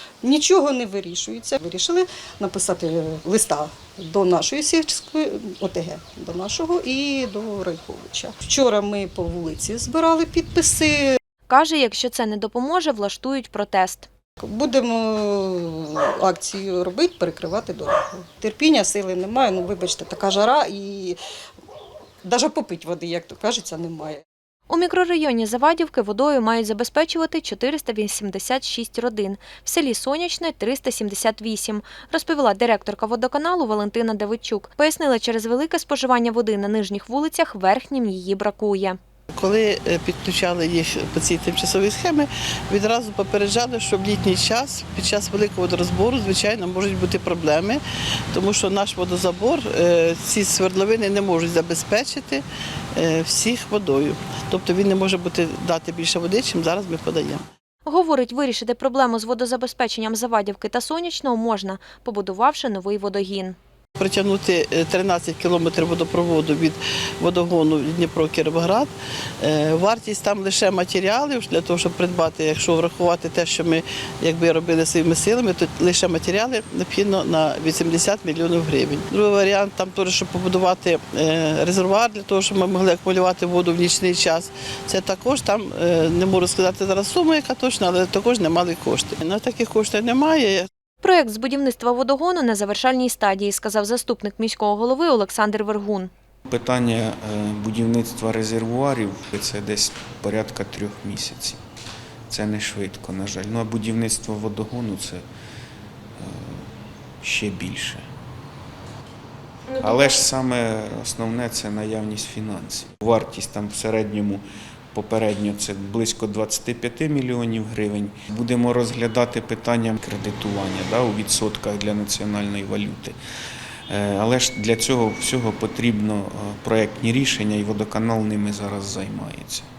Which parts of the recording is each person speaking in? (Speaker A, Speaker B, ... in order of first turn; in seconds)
Speaker A: 0.2-11.2, 14.4-21.2, 22.2-24.2
Speaker B: 11.5-14.1, 24.7-39.0, 57.8-63.5, 91.0-96.1
Speaker C: 39.3-47.8, 48.3-52.4, 52.9-57.4, 64.0-90.7
Speaker D: 96.5-101.6, 102.3-105.2, 106.2-106.7, 107.2-108.0, 109.8-123.2, 123.9-129.7